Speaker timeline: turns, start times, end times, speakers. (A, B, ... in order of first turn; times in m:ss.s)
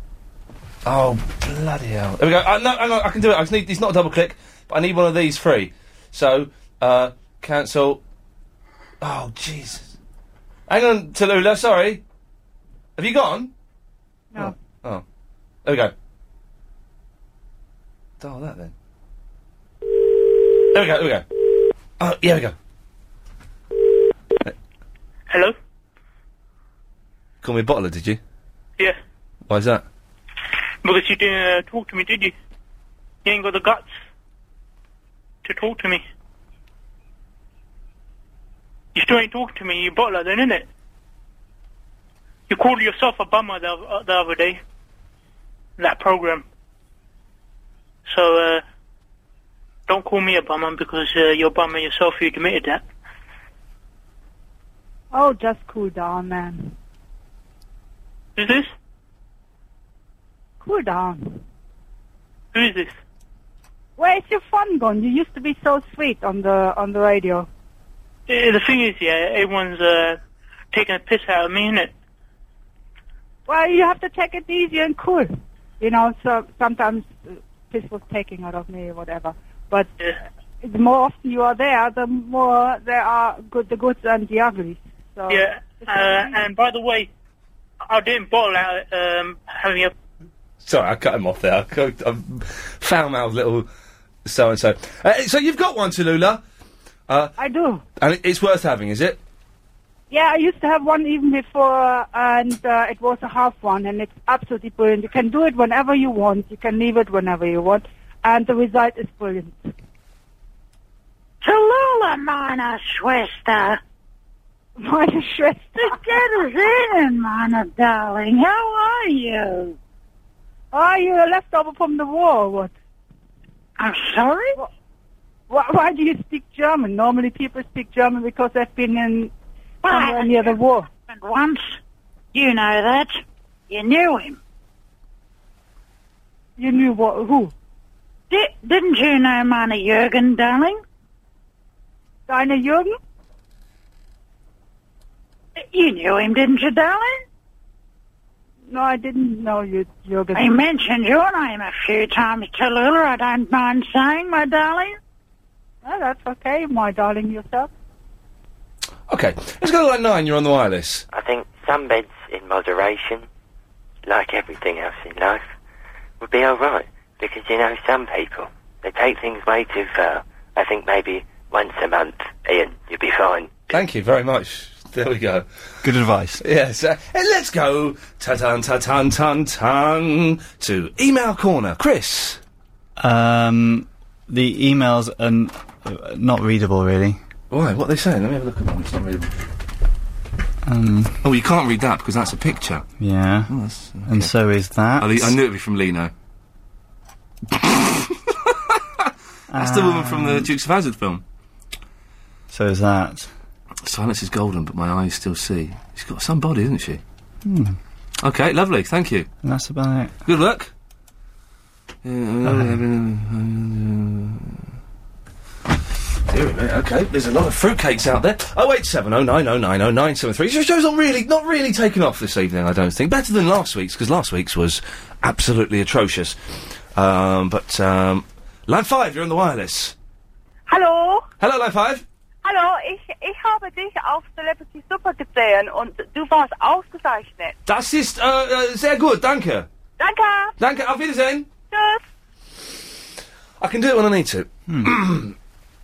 0:00.8-0:08.0 A
0:09.0-0:09.9 A
0:10.7-0:12.0 A
0:13.0-0:13.5 A
0:14.4-0:15.0 A
0:15.6-0:15.9 A
0:18.2-0:18.7 A
0:20.7-0:21.2 A
0:22.0-0:22.5 A
0:25.3-0:25.5 B
0:27.4-0:28.2 A
0:29.5-0:29.8 A
0:30.8-0:32.3 B
0:33.2-0:33.9 B
0:35.4-0:36.0 B
0:38.9-0:40.7 B
0:42.5-0:44.6 B
0:45.8-0:46.4 B
0:48.0-0:48.6 B
0:49.9-0:52.8 B
0:55.1-0:56.7 C
0:58.4-0:58.7 B
1:00.6-1:01.4 C
1:02.5-1:02.9 B
1:04.0-1:07.5 C
1:08.3-1:10.2 B
1:10.7-1:11.9 B
1:13.5-1:19.9 C
1:20.6-1:26.4 C
1:25.3-1:27.1 B
1:27.9-1:29.9 B
1:30.6-1:33.7 A
1:34.2-1:36.4 A
1:37.1-1:37.3 A
1:37.4-1:37.8 C
1:38.0-1:39.2 A
1:40.1-1:49.7 C
1:51.4-1:53.8 D
1:54.8-1:56.2 C
1:55.8-1:59.8 D
2:00.7-2:02.7 C
2:03.8-2:04.6 D
2:05.5-2:09.3 C
2:09.8-2:11.8 D
2:09.9-2:10.9 C
2:12.3-2:14.4 D
2:16.6-2:17.5 C
2:18.3-2:20.8 D
2:22.3-2:22.9 C
2:25.6-2:27.2 D
2:28.7-2:30.5 C
2:30.3-2:35.0 D
2:35.8-2:37.7 C
2:39.1-2:41.0 A
2:41.1-2:43.2 E
2:44.0-2:45.4 E
2:46.2-2:53.6 E
2:53.7-2:55.4 A
2:55.8-2:56.4 F
2:56.4-3:02.4 A
3:03.0-3:07.2 F
3:07.5-3:09.3 A
3:10.6-3:11.2 F
3:11.2-3:12.8 A
3:13.0-3:13.5 F
3:13.5-3:14.3 A
3:14.0-3:15.4 F
3:15.0-3:16.1 A
3:17.5-3:18.1 A
3:19.5-3:20.5 F
3:19.6-3:21.2 A
3:22.5-3:23.3 F
3:23.8-3:27.0 A
3:27.4-3:27.8 F
3:28.2-3:29.3 A
3:29.4-3:30.1 F
3:30.2-3:30.7 A
3:32.0-3:34.6 A
3:32.4-3:32.8 F
3:36.3-3:46.4 A
3:46.9-3:49.9 A
3:50.7-3:51.2 G
3:51.4-3:52.0 A
3:52.4-3:57.6 G
3:57.6-3:59.7 A
4:00.0-4:00.6 G
4:00.6-4:01.5 A
4:01.7-4:02.0 G
4:03.6-4:05.3 A
4:04.7-4:04.9 F